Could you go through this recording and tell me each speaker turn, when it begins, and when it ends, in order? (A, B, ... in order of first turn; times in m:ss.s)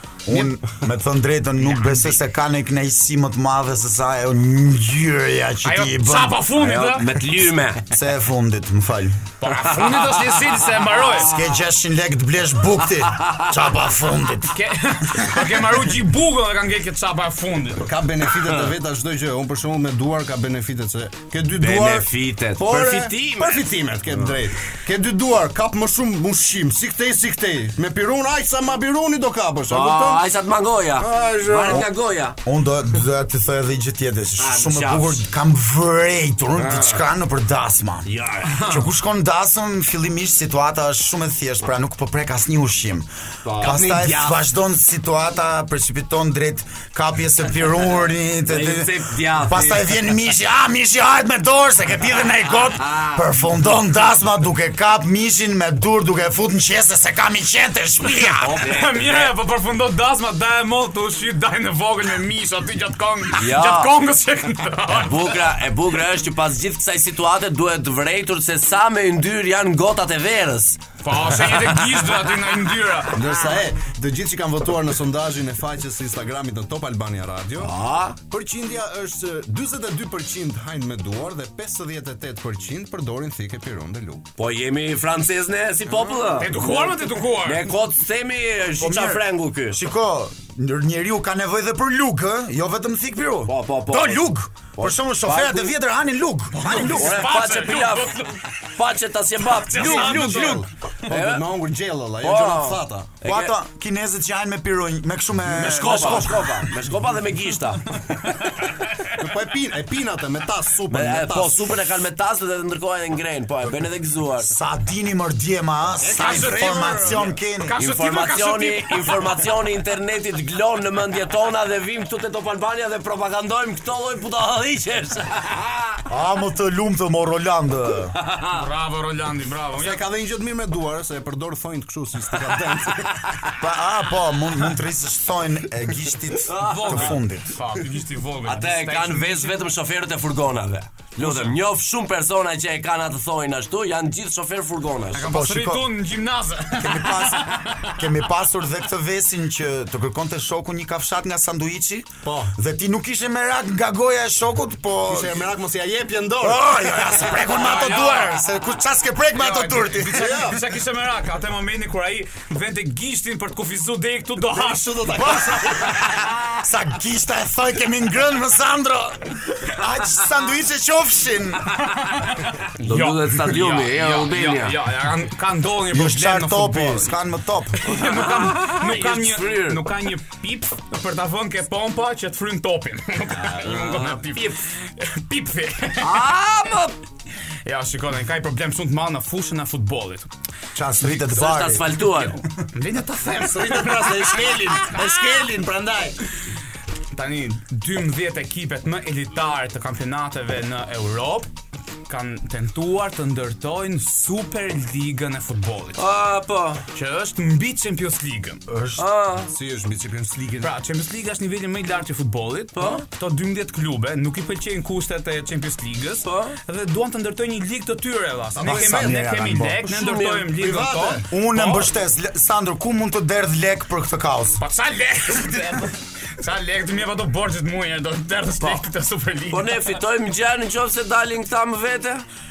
0:00.2-0:06.4 A
0:00.3-0:00.6 B
0:01.7-0:02.1 B
0:05.6-0:07.0 C
0:06.6-0:07.8 D
0:07.8-0:09.2 A
0:09.4-0:11.3 C
0:09.5-0:11.6 D
0:11.1-0:14.5 A
0:14.5-0:17.9 C
0:17.8-0:30.2 B
0:18.4-0:18.7 D
0:21.6-0:23.6 D
0:29.7-0:32.4 D
0:31.0-0:31.9 B
0:32.4-0:58.7 A
0:34.4-0:35.2 D
0:36.6-0:36.9 B
0:38.0-0:38.6 D
0:38.4-0:38.8 C
0:43.4-0:44.4 D
0:48.5-0:49.9 D
0:52.8-0:53.3 D
0:58.4-0:59.3 D
0:58.5-1:05.4 C
1:03.4-1:03.9 D
1:04.9-1:12.2 D
1:11.0-1:13.5 C
1:13.1-1:17.7 B
1:17.6-1:18.2 D
1:18.2-1:24.2 B
1:24.4-1:26.6 D
1:25.9-1:26.6 B
1:26.4-1:27.7 C
1:27.4-1:29.8 D
1:28.8-1:37.1 A
1:33.5-1:35.7 D
1:36.6-1:38.4 C
1:36.6-1:41.5 D
1:39.5-1:40.6 C
1:39.7-1:43.1 B
1:42.2-1:43.5 D
1:43.2-1:46.6 A
1:45.5-1:48.0 D
1:49.1-1:51.7 B
1:50.9-1:54.5 D
1:54.4-1:57.8 A
1:56.0-1:57.3 B
1:56.1-1:59.4 C
1:57.8-2:06.0 D
2:06.1-2:08.1 A
2:08.2-2:08.6 D
2:08.5-2:10.0 C
2:09.7-2:13.3 B
2:13.6-2:17.5 A
2:16.5-2:17.0 D
2:16.6-2:19.5 C
2:18.4-2:25.3 D
2:21.2-2:21.5 C
2:25.1-2:27.9 C
2:25.2-2:25.9 A
2:26.8-2:35.5 A
2:32.2-2:32.5 B
2:35.0-2:37.3 B
2:36.4-2:40.5 A
2:37.4-2:38.4 C
2:39.3-2:45.4 C
2:40.1-2:40.6 B
2:44.4-2:45.9 B
2:45.2-2:51.7 A
2:51.9-2:57.1 C
2:52.8-2:54.8 D
2:55.9-2:57.9 A
2:57.7-3:06.3 C
2:57.9-2:59.8 D
3:03.4-3:04.3 D
3:06.0-3:07.0 D
3:07.6-3:10.3 C
3:10.7-3:12.0 A
3:11.3-3:12.4 D
3:12.7-3:14.6 C
3:13.4-3:16.2 B
3:17.1-3:21.5 C
3:22.1-3:26.0 C
3:26.0-3:26.8 D
3:26.9-3:28.6 C
3:28.7-3:29.0 A
3:29.0-3:29.5 D
3:29.5-3:30.7 B
3:30.6-3:41.9 C
3:32.8-3:33.0 D
3:36.2-3:36.6 D
3:38.5-3:39.2 B
3:38.6-3:39.9 A
3:39.9-3:40.5 D
3:40.5-3:41.3 B
3:41.3-3:44.6 A
3:44.6-3:50.0 C
3:49.5-3:52.2 D